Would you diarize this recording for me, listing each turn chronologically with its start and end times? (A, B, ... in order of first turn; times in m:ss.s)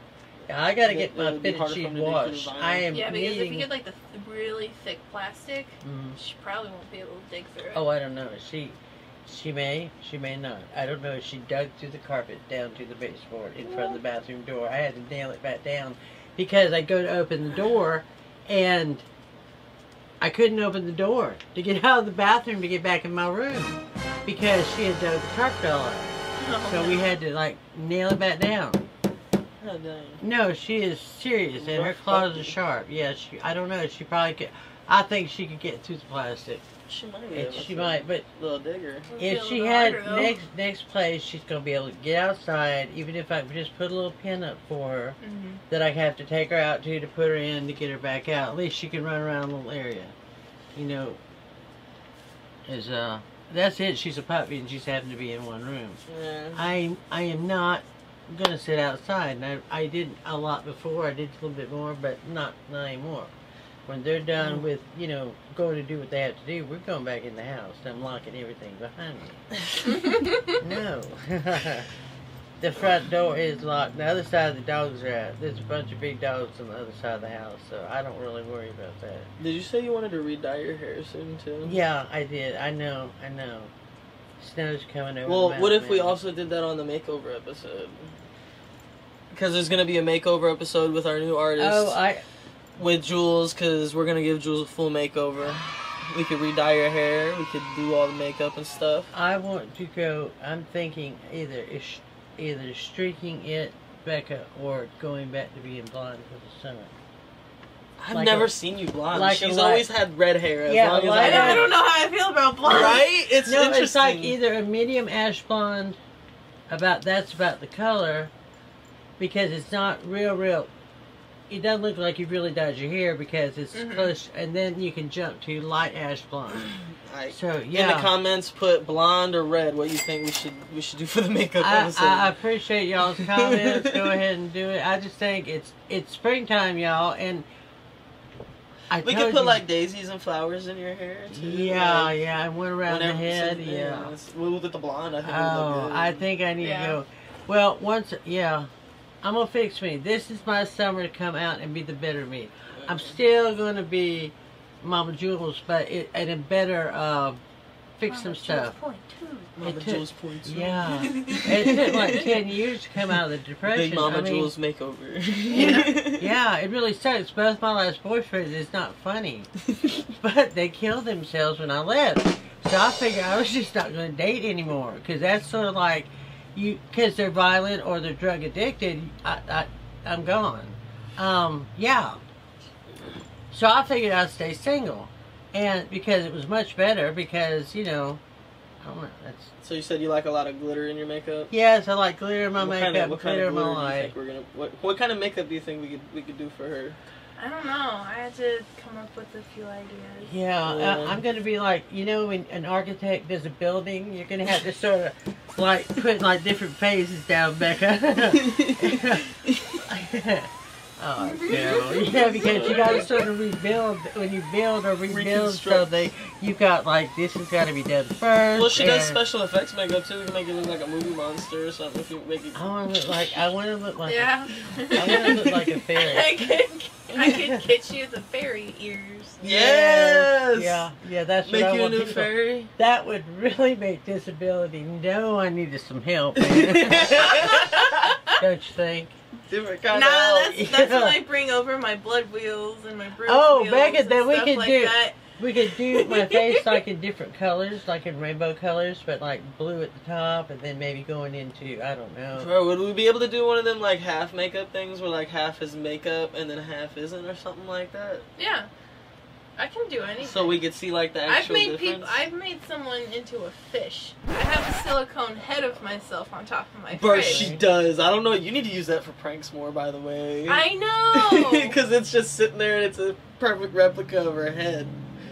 0:00.5-0:03.7 A
0:00.8-0:02.9 B
0:02.9-0:07.8 C
0:05.8-0:06.2 A
0:07.7-0:19.0 A
0:13.6-0:14.0 C
0:20.2-0:28.8 A
0:26.4-0:27.1 C
0:29.6-0:30.2 B
0:30.2-0:36.6 A
0:31.6-0:32.5 B
0:36.9-0:39.1 B
0:37.3-0:38.2 A
0:39.1-0:40.4 C
0:39.2-0:45.2 A
0:45.2-0:45.6 C
0:45.7-0:50.1 A
0:50.7-0:51.2 A
0:52.6-0:56.0 A
0:56.1-0:56.6 B
0:56.5-1:03.3 A
1:03.9-1:09.4 A
1:09.8-1:10.6 C
1:10.6-1:11.9 A
1:12.6-1:19.3 A
1:19.4-1:21.8 B
1:21.6-1:23.7 A
1:24.4-1:26.2 A
1:25.2-1:28.1 B
1:29.3-1:32.0 B
1:31.6-1:32.2 A
1:32.8-1:39.1 B
1:39.1-1:46.9 A
1:48.0-1:51.8 B
1:48.1-1:48.5 A
1:49.1-1:49.8 A
1:50.7-1:51.7 A
1:51.2-1:53.0 C
1:52.6-1:54.3 B
1:53.4-1:56.0 A
1:56.7-1:58.3 A
1:59.2-2:00.7 A
2:01.5-2:06.7 A
2:03.7-2:04.1 C
2:06.6-2:12.3 B
2:07.3-2:08.1 A
2:11.6-2:17.4 A
2:13.2-2:14.2 B
2:18.9-2:19.6 A
2:19.0-2:22.1 B
2:21.3-2:24.1 A
2:22.9-2:26.2 B
2:25.2-2:28.7 A
2:26.6-2:27.0 C
2:29.2-2:37.4 A
2:32.7-2:33.2 B
2:38.0-2:38.7 A
2:38.1-2:39.5 C
2:39.6-2:42.4 B
2:39.6-2:44.5 A
2:41.0-2:42.1 C
2:43.7-2:46.3 B
2:45.5-2:45.9 C
2:45.5-2:49.5 A
2:50.1-3:02.2 A
3:03.5-3:08.2 A
3:08.8-3:09.5 A
3:09.6-3:11.5 B
3:11.5-3:14.1 A
3:12.6-3:17.0 B
3:17.4-3:20.3 C
3:20.2-3:29.3 A
3:20.6-3:21.2 B
3:28.3-3:29.8 B
3:29.8-3:39.2 A
3:31.2-3:33.1 C
3:31.6-3:33.1 B
3:35.1-3:36.1 B
3:38.5-3:43.4 B
3:42.5-3:44.4 A
3:44.1-3:49.4 C
3:44.9-3:46.5 A
3:45.0-3:45.7 B
3:49.4-3:50.9 B
3:49.4-3:57.7 A
3:51.4-3:52.7 B
3:56.4-3:58.1 B
3:57.3-3:58.4 C
3:58.4-3:59.1 A
3:59.5-4:00.6 B
3:59.9-4:05.2 C
4:00.5-4:01.2 A
4:03.2-4:12.5 A
4:05.9-4:06.8 C
4:12.4-4:18.2 B
4:18.4-4:18.7 C
4:19.6-4:20.6 C
4:20.2-4:22.2 B
4:21.3-4:27.5 C
4:26.9-4:35.0 B
4:27.1-4:27.6 A
4:30.5-4:31.7 C